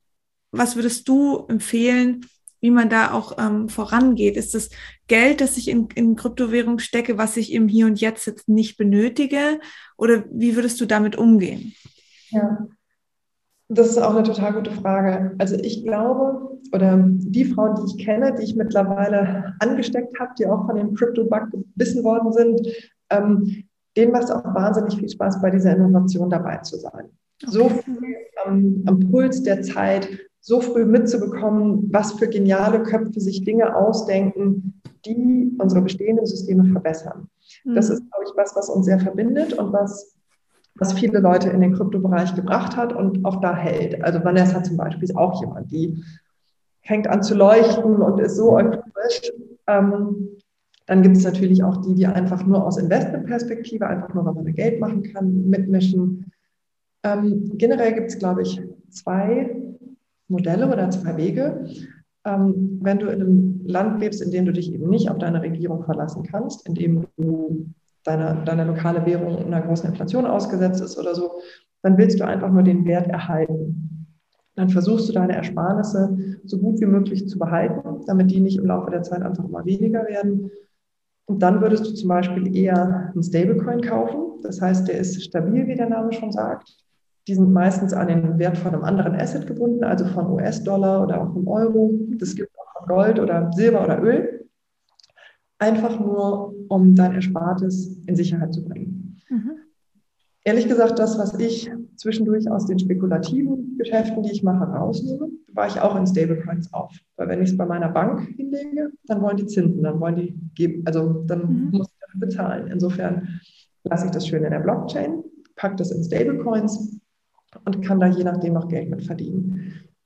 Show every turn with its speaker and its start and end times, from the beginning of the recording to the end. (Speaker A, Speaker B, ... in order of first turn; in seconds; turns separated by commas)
Speaker A: 0.5-11.7, Speaker B: 12.3-12.7, Speaker B: 13.7-40.1, Speaker A: 27.4-28.1, Speaker A: 37.6-38.0, Speaker B: 40.8-46.0, Speaker B: 46.8-56.3, Speaker B: 57.0-74.0, Speaker B: 74.5-80.5, Speaker B: 81.3-86.7, Speaker B: 87.2-94.5, Speaker B: 95.6-99.2, Speaker A: 99.3-99.6, Speaker B: 100.4-117.0, Speaker A: 111.5-111.7, Speaker B: 117.7-119.8